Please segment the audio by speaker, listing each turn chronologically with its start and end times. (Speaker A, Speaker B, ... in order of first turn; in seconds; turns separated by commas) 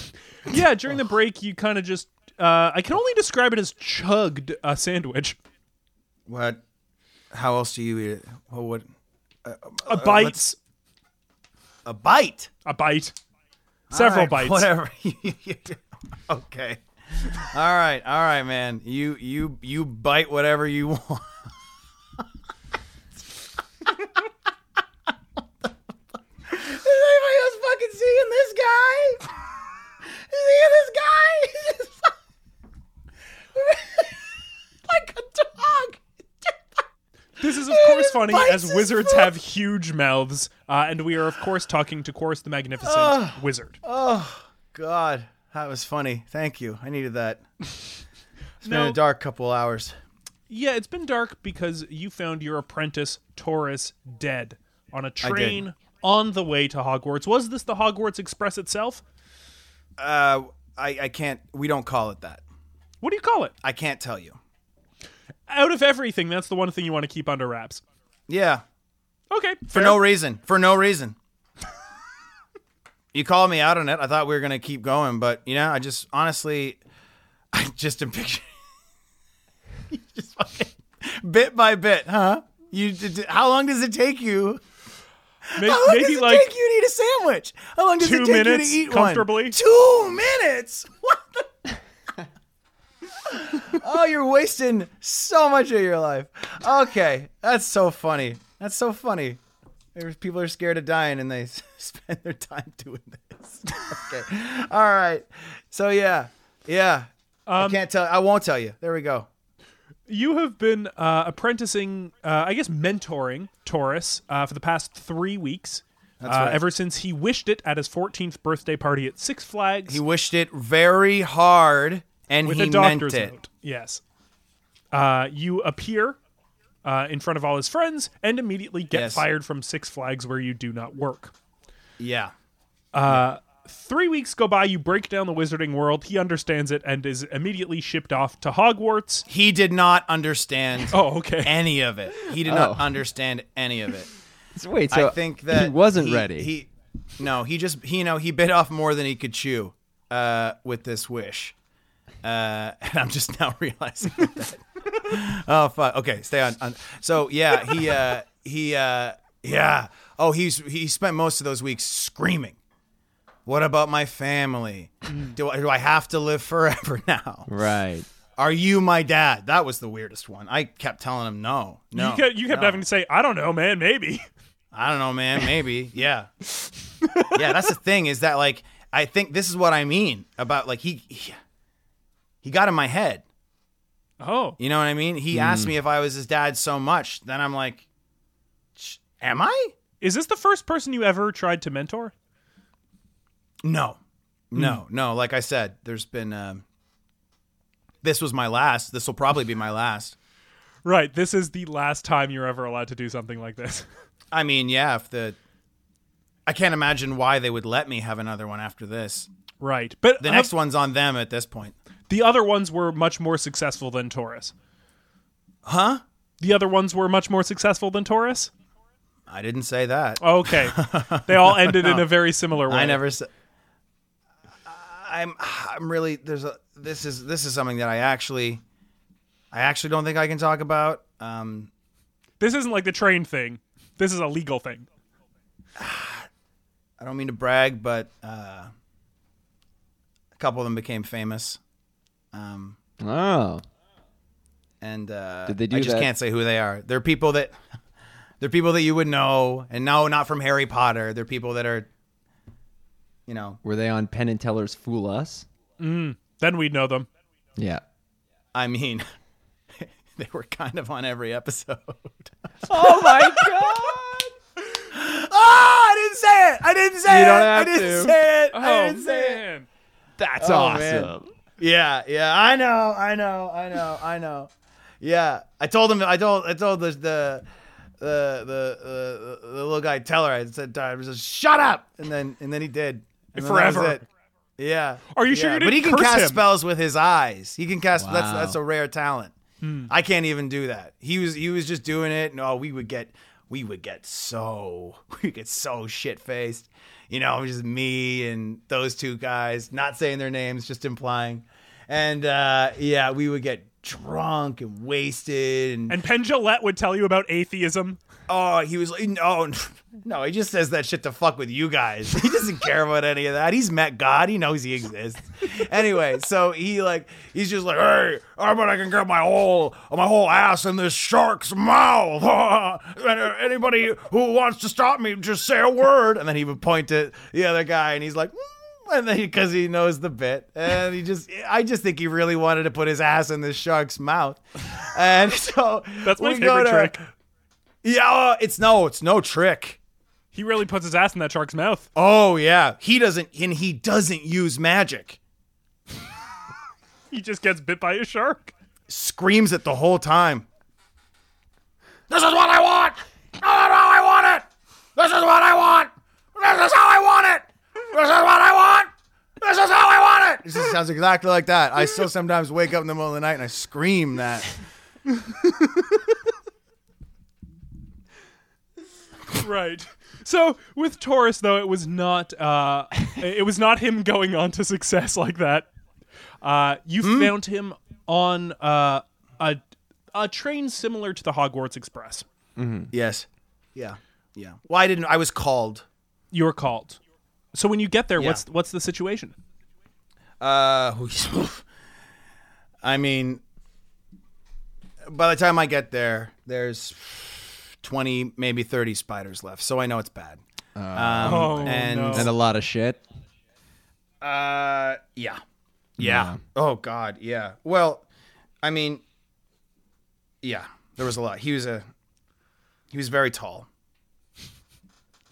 Speaker A: 0.5-5.4, Speaker B: 6.3-6.6, Speaker B: 7.3-8.9, Speaker B: 9.4-10.4, Speaker A: 9.9-10.6, Speaker B: 11.9-12.5, Speaker A: 12.6-13.1, Speaker B: 13.9-21.3, Speaker A: 13.9-14.7, Speaker B: 26.5-29.3, Speaker B: 30.3-32.1, Speaker B: 33.6-34.3, Speaker B: 34.9-36.5, Speaker A: 37.4-43.8, Speaker B: 37.4-39.3, Speaker B: 42.8-47.5, Speaker B: 48.6-50.0, Speaker A: 48.6-49.0, Speaker A: 50.5-59.0, Speaker B: 55.2-55.6, Speaker B: 60.0-62.4, Speaker A: 63.0-63.5, Speaker B: 63.6-64.4, Speaker A: 65.5-67.8, Speaker B: 68.3-68.6, Speaker A: 69.3-70.0, Speaker B: 69.7-71.2, Speaker B: 73.1-76.8, Speaker B: 77.5-78.5, Speaker B: 79.9-84.6, Speaker B: 85.5-91.5, Speaker A: 85.6-86.5, Speaker A: 88.0-89.6, Speaker B: 93.2-99.4, Speaker B: 100.0-109.3, Speaker A: 107.5-107.8, Speaker A: 110.1-120.0, Speaker B: 116.2-116.6, Speaker B: 119.9-123.3, Speaker A: 122.5-124.0, Speaker A: 124.9-126.2, Speaker A: 126.8-131.3, Speaker B: 128.9-129.2, Speaker B: 132.0-132.3, Speaker A: 132.9-139.3, Speaker B: 139.3-144.1, Speaker A: 140.9-141.6, Speaker C: 142.4-142.9, Speaker C: 144.5-146.5, Speaker B: 144.9-151.6, Speaker B: 152.2-162.6, Speaker B: 163.5-167.5, Speaker A: 165.1-165.3, Speaker C: 167.5-168.1, Speaker B: 168.4-172.8, Speaker A: 171.9-174.2, Speaker B: 174.7-176.3, Speaker B: 177.3-181.4, Speaker B: 182.4-183.2, Speaker A: 184.2-184.6, Speaker B: 184.6-187.9, Speaker C: 185.3-185.7, Speaker B: 188.8-189.7, Speaker A: 190.0-192.1, Speaker B: 193.6-194.0, Speaker B: 194.5-196.6, Speaker B: 198.0-200.2, Speaker A: 200.8-203.9, Speaker B: 204.3-205.4, Speaker B: 206.5-209.3, Speaker A: 209.6-210.5, Speaker B: 210.2-211.8, Speaker A: 212.1-214.5, Speaker B: 215.7-216.0, Speaker A: 216.4-218.5, Speaker B: 219.3-222.1, Speaker A: 220.2-223.0, Speaker B: 222.7-223.3, Speaker B: 224.7-228.6, Speaker B: 229.5-231.7, Speaker A: 232.4-234.9, Speaker B: 235.8-236.3, Speaker B: 237.0-238.7, Speaker B: 240.4-241.6, Speaker B: 242.3-242.8, Speaker C: 243.0-243.6, Speaker B: 244.8-247.6, Speaker C: 245.5-246.1, Speaker B: 248.4-251.9, Speaker B: 253.3-253.6, Speaker C: 253.6-255.5, Speaker A: 255.8-257.1, Speaker C: 257.6-257.8, Speaker B: 258.5-259.1, Speaker B: 259.8-263.9, Speaker C: 262.7-264.3, Speaker B: 264.7-269.4, Speaker C: 267.1-268.2, Speaker A: 268.5-269.6, Speaker C: 270.2-271.3, Speaker B: 270.4-277.4, Speaker B: 278.0-284.0, Speaker A: 283.4-284.0, Speaker B: 284.6-289.4, Speaker A: 285.1-286.4, Speaker C: 288.0-288.6, Speaker A: 289.6-289.9, Speaker B: 289.9-306.0, Speaker A: 305.9-308.0, Speaker B: 308.3-337.0, Speaker A: 336.0-337.0, Speaker B: 337.8-339.8, Speaker A: 340.3-341.9, Speaker B: 341.9-345.2, Speaker A: 347.1-348.5, Speaker B: 348.9-350.4, Speaker B: 352.1-358.9, Speaker B: 359.4-364.6, Speaker A: 369.3-375.7, Speaker A: 376.4-379.6, Speaker B: 377.0-377.3, Speaker A: 380.1-382.3, Speaker C: 382.6-382.9, Speaker B: 382.9-385.9, Speaker A: 386.3-387.0, Speaker A: 387.5-389.3, Speaker B: 390.4-391.6, Speaker B: 392.8-393.4, Speaker B: 395.1-400.4, Speaker C: 400.8-403.0, Speaker B: 400.9-402.3, Speaker A: 401.2-402.3, Speaker B: 404.2-405.4, Speaker B: 406.0-408.1, Speaker C: 406.0-406.4, Speaker B: 408.6-409.0, Speaker B: 410.4-411.9, Speaker B: 412.9-413.7